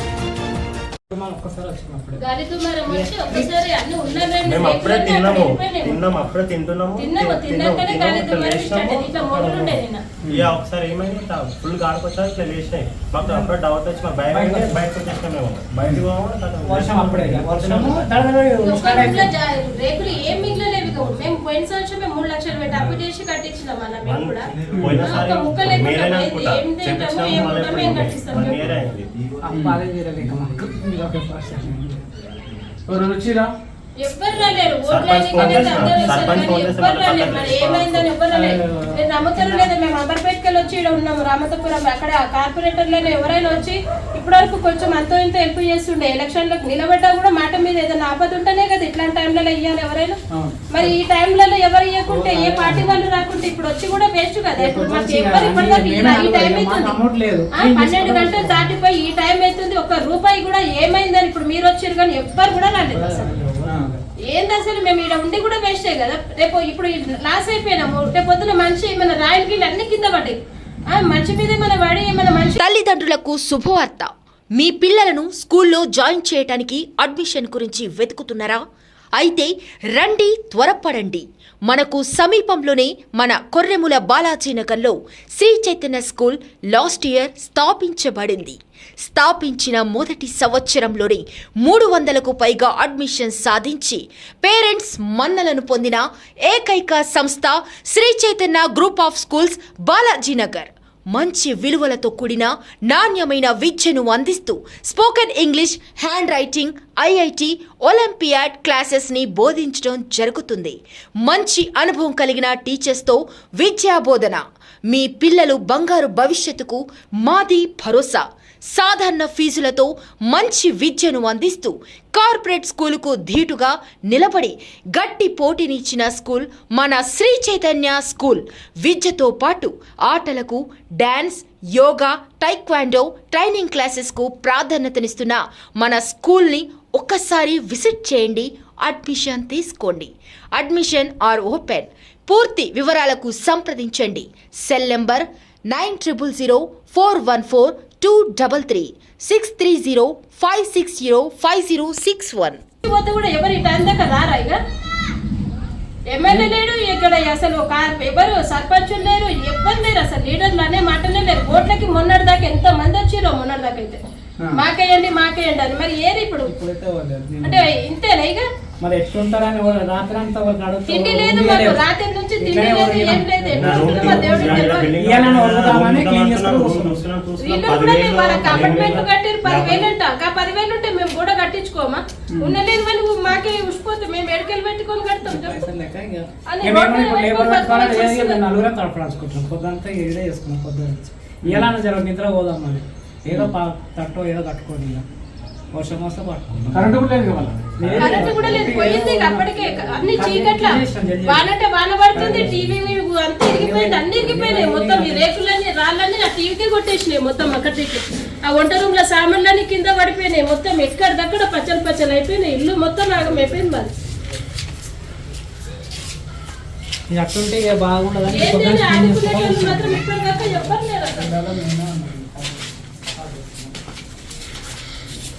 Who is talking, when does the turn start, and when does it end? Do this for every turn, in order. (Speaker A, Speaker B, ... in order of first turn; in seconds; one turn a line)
Speaker A: 1.1-2.2
Speaker B: 2.2-6.0
Speaker C: 4.4-18.1
Speaker B: 7.0-10.0
Speaker A: 13.2-13.5
Speaker A: 14.3-14.9
Speaker A: 16.6-19.4
Speaker B: 18.6-28.6
Speaker C: 24.0-29.1
Speaker A: 29.4-32.0
Speaker D: 29.5-29.8
Speaker D: 32.9-33.5
Speaker B: 34.0-50.2
Speaker C: 34.8-38.1
Speaker A: 35.6-36.3
Speaker A: 38.3-39.7
Speaker B: 50.7-57.0
Speaker A: 52.1-52.9
Speaker A: 54.6-58.7
Speaker B: 57.6-63.3
Speaker A: 62.9-64.0
Speaker D: 63.6-63.9
Speaker B: 64.3-70.4
Speaker B: 70.9-72.6
Speaker E: 72.6-78.6
Speaker E: 79.2-152.6
Speaker B: 152.8-154.6
Speaker B: 156.1-164.0
Speaker B: 164.5-166.5
Speaker A: 166.4-167.7
Speaker B: 167.4-168.4
Speaker A: 168.8-171.8
Speaker B: 170.9-174.9
Speaker A: 172.4-177.0
Speaker C: 173.5-179.9
Speaker B: 177.4-185.6
Speaker A: 178.4-179.0
Speaker A: 185.3-195.0
Speaker B: 186.5-188.4
Speaker D: 191.5-191.7
Speaker A: 195.7-197.0
Speaker D: 196.7-198.3
Speaker A: 197.8-201.5
Speaker B: 198.0-213.9
Speaker A: 202.1-202.7
Speaker A: 203.4-205.2
Speaker A: 217.1-223.7
Speaker B: 218.3-221.3